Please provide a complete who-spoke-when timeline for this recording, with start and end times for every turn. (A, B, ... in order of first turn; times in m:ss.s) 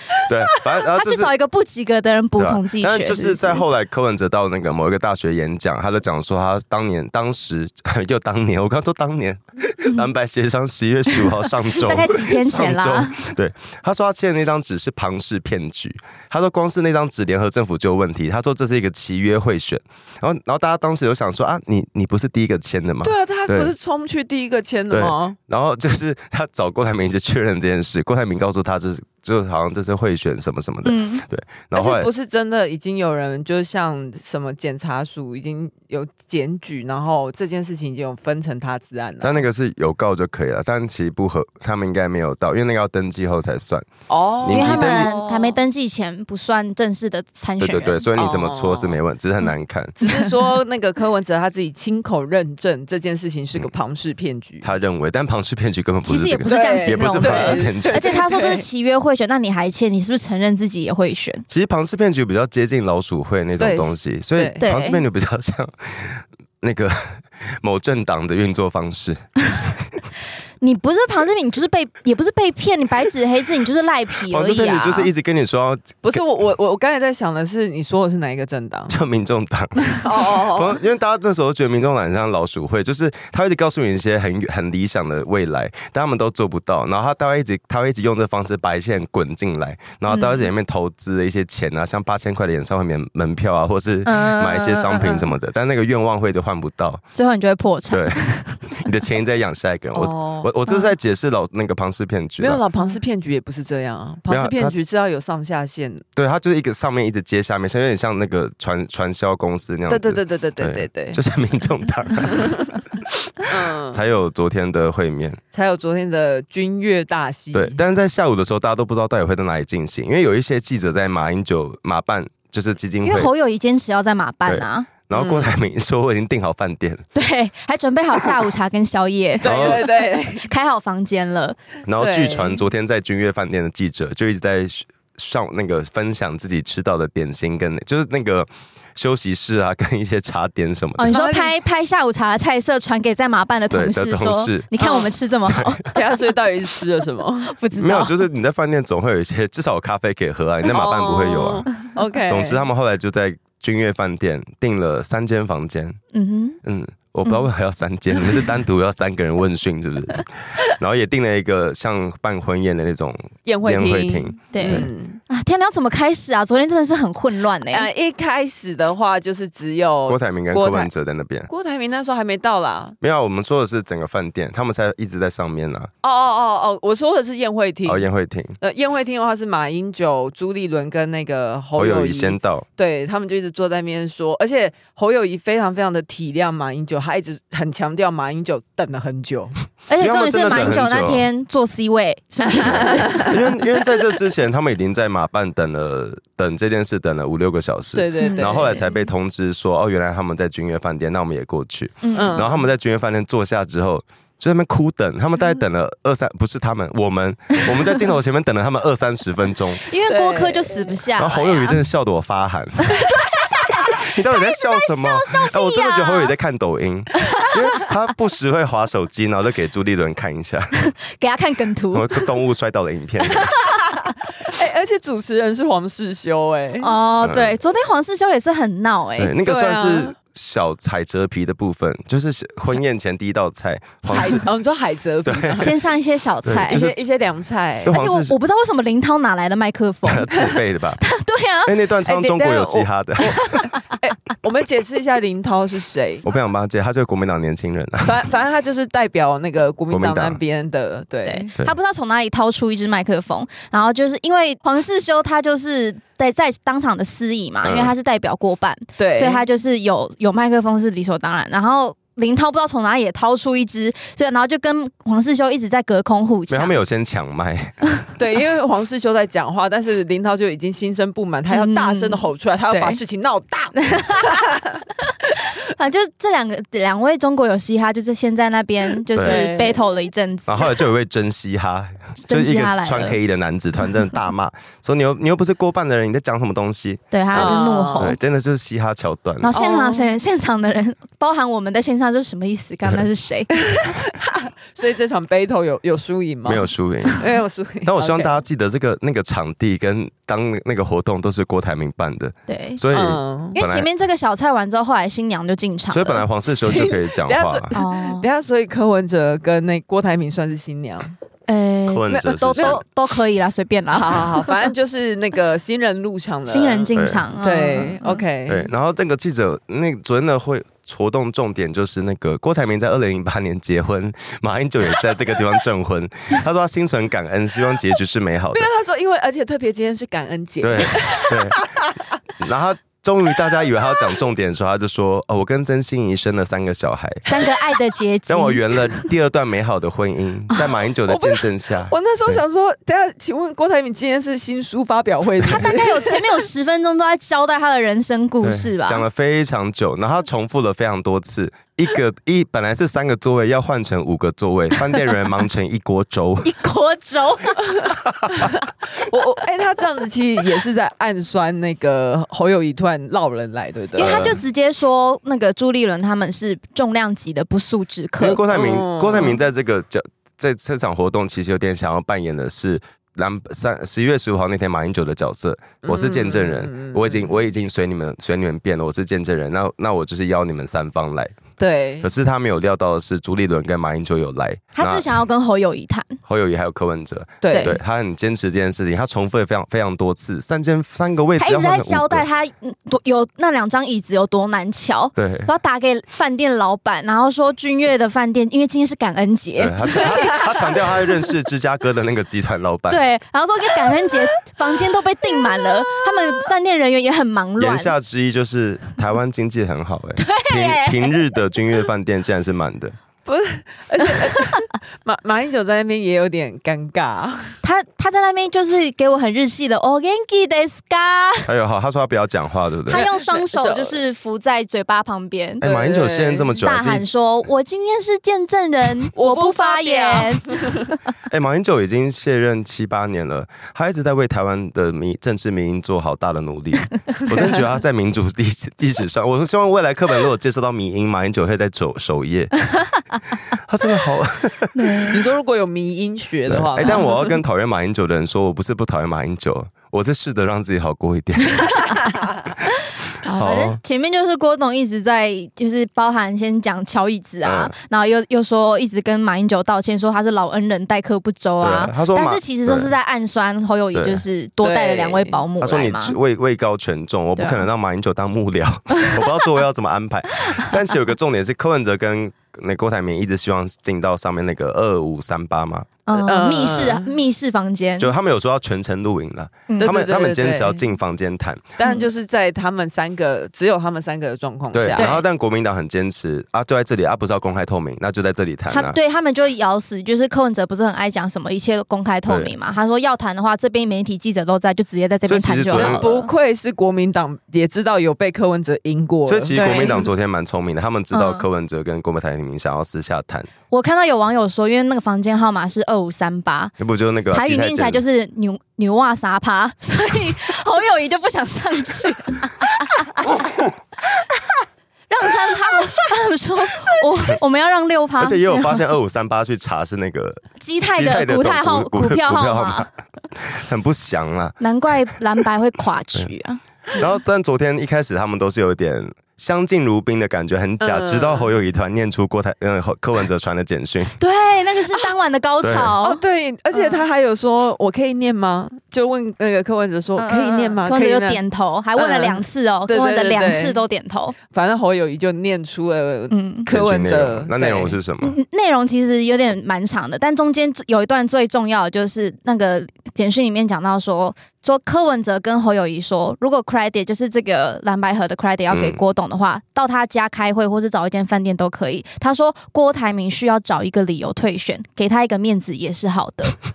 0:00.1-0:03.6 A
0:00.2-0:01.3 B
0:02.4-0:23.7 B
0:11.7-0:13.3 A
0:23.0-0:25.4 C
0:24.9-0:32.1 B
0:30.8-0:31.2 A
0:31.7-0:39.4 C
0:39.2-0:43.9 B
0:44.1-0:45.6 C
0:44.4-0:45.2 B
0:44.5-0:48.0 A
0:47.6-0:50.0 B
0:48.2-0:49.0 C
0:50.0-0:54.7 C
0:54.6-0:58.1 B
0:56.1-1:01.4 A
0:56.5-0:58.6 C
1:01.5-1:09.2 B
1:03.6-1:04.6 C
1:04.6-1:05.0 A
1:10.6-1:15.1 A
1:14.3-1:16.2 B
1:16.0-1:19.0 C
1:18.9-1:37.0 B
1:19.8-1:20.8 C
1:30.1-1:30.5 A
1:34.1-1:35.3 A
1:37.2-1:38.6 A
1:37.9-1:42.6 B
1:39.9-1:40.5 C
1:42.4-1:46.1 C
1:44.3-1:44.8 B
1:46.2-1:55.4 B
1:49.9-1:51.2 C
1:52.3-1:52.7 C
1:53.5-1:54.0 C
1:55.5-1:57.8 C
1:57.5-2:03.3 B
2:03.0-2:04.9 A
2:04.5-2:07.0 B
2:05.1-2:05.6 C
2:07.1-2:11.6 A
2:09.4-2:10.5 C
2:09.4-2:09.8 B
2:11.9-2:21.1 B
2:12.0-2:12.6 C
2:21.0-2:26.2 A
2:21.1-2:21.6 C
2:23.7-2:24.7 B
2:24.8-2:25.1 C
2:25.5-2:25.8 B
2:25.9-2:27.6 C
2:27.5-2:28.2 A
2:27.8-2:31.7 B
2:30.7-2:32.7 C
2:32.3-2:36.0 B
2:36.1-2:36.6 A
2:36.6-2:44.9 B
2:43.5-2:45.2 C
2:44.5-2:47.9 A
2:47.7-2:50.9 C
2:50.1-2:51.5 B
2:51.5-2:53.0 C
2:53.0-2:55.9 B
2:56.0-2:58.1 C
2:57.8-2:58.6 B
2:58.6-3:09.6 C
3:01.8-3:02.6 B
3:09.9-3:13.4 A
3:10.0-3:11.3 B
3:12.6-3:29.8 B
3:12.8-3:13.3 C
3:18.0-3:18.8 C
3:18.2-3:19.0 A
3:22.0-3:22.4 A
3:22.2-3:22.6 C
3:29.8-3:31.8 A
3:30.0-3:31.0 C
3:31.2-3:33.0 B
3:33.0-3:36.3 A
3:34.0-3:40.7 B
3:40.8-3:42.3 A
3:41.9-3:43.5 B
3:43.3-3:43.8 A
3:44.1-3:47.0 C
3:46.8-3:49.3 A
3:47.2-3:47.6 B
3:49.2-3:54.4 B
3:49.4-3:50.2 C
3:54.1-3:55.8 C
3:55.3-3:55.7 B
3:55.6-3:56.8 A
3:56.4-3:57.0 B
3:56.7-3:58.0 C
3:57.8-3:58.3 B
3:57.9-4:00.5 A
4:00.0-4:01.0 B
4:01.0-4:01.7 A
4:01.6-4:03.4 B
4:02.0-4:06.2 C
4:03.4-4:03.7 A
4:06.2-4:08.3 B
4:08.0-4:11.5 C
4:09.9-4:10.4 B
4:11.3-4:26.8 A
4:17.6-4:17.9 B
4:19.0-4:19.4 C
4:26.5-4:27.8 B
4:28.2-4:34.8 C
4:31.5-4:33.0 A
4:33.8-4:40.8 A
4:39.2-4:39.4 B
4:39.2-4:39.9 C
4:40.5-4:49.6 B
4:42.2-4:43.2 A
4:47.1-4:48.2 A
4:47.3-4:48.2 C
4:49.4-4:53.6 A
4:49.5-4:50.1 C
4:53.6-4:58.4 C
4:56.4-4:57.3 B
4:57.8-5:03.9 B
5:02.5-5:02.8 A
5:02.9-5:03.6 C
5:03.5-5:06.3 A
5:05.9-5:07.7 B
5:06.5-5:11.2 C
5:07.7-5:08.3 A
5:11.5-5:14.5 A
5:11.9-5:12.8 B
5:12.1-5:12.8 C
5:13.9-5:18.7 C
5:16.5-5:18.2 A
5:16.9-5:17.3 B
5:18.5-5:28.7 B
5:28.5-5:32.0 C
5:30.6-5:31.6 B
5:32.4-5:37.5 B
5:37.3-5:38.6 A
5:38.3-5:42.4 B
5:41.0-5:46.4 C
5:45.5-5:49.0 A
5:48.4-5:56.6 B
5:56.4-5:57.8 A
5:57.8-6:04.4 C
6:04.0-6:08.4 A
6:04.0-6:04.4 B
6:08.2-6:21.4 B
6:08.5-6:09.4 C
6:15.8-6:17.4 C
6:21.6-6:22.1 C
6:22.0-6:25.1 B
6:24.8-6:26.2 A
6:26.2-6:32.2 B
6:27.4-6:27.8 C
6:27.5-6:27.8 A
6:31.4-6:41.0 A
6:35.2-6:35.5 B
6:39.6-6:43.0 B
6:42.9-6:47.9 A
6:47.6-6:53.0 B
6:50.2-6:51.2 A
6:53.3-6:57.6 C
6:54.1-6:54.4 A
6:57.6-7:01.5 A
7:01.5-7:03.0 B
7:02.9-7:05.6 A
7:02.9-7:04.0 C
7:05.6-7:06.6 C
7:05.6-7:07.1 B
7:06.6-7:10.8 A
7:09.2-7:10.8 C
7:11.3-7:22.6 B
7:17.3-7:17.6 C
7:23.5-7:25.2 B
7:24.7-7:25.2 A
7:25.1-7:27.4 C
7:26.5-7:32.0 B
7:31.7-7:32.0 A
7:33.2-7:46.2 A
7:33.3-7:33.8 B
7:37.4-7:37.8 B
7:41.6-7:42.9 B
7:43.9-7:44.2 B
7:44.6-7:45.4 C
7:45.6-7:55.9 B
7:47.4-7:47.6 A
7:48.9-7:49.3 A
7:56.1-7:58.1 A
7:56.2-7:57.2 C
7:58.0-8:01.8 B
7:59.8-8:00.9 C
8:01.8-8:05.1 C
8:04.7-8:09.0 B
8:05.0-8:05.2 A
8:08.7-8:16.3 A
8:12.3-8:12.5 B
8:15.3-8:16.0 B
8:15.7-8:20.0 C
8:19.3-8:23.5 B
8:19.5-8:20.0 A
8:21.1-8:21.5 A
8:23.7-8:26.7 A
8:26.8-8:28.0 B
8:27.3-8:33.3 A
8:34.1-8:34.5 A
8:35.1-8:38.8 A
8:38.2-8:44.6 B
8:40.6-8:42.9 A
8:44.6-8:46.6 A
8:47.0-8:54.2 B
8:50.8-8:51.5 C
8:54.2-8:56.2 A
8:55.6-8:55.9 B
8:56.0-9:01.4 C
8:56.7-8:57.0 A
9:00.2-9:04.4 A
9:02.0-9:03.8 C
9:04.5-9:08.0 C
9:06.3-9:06.7 A
9:06.7-9:08.4 B
9:08.2-9:26.6 A
9:18.7-9:19.0 B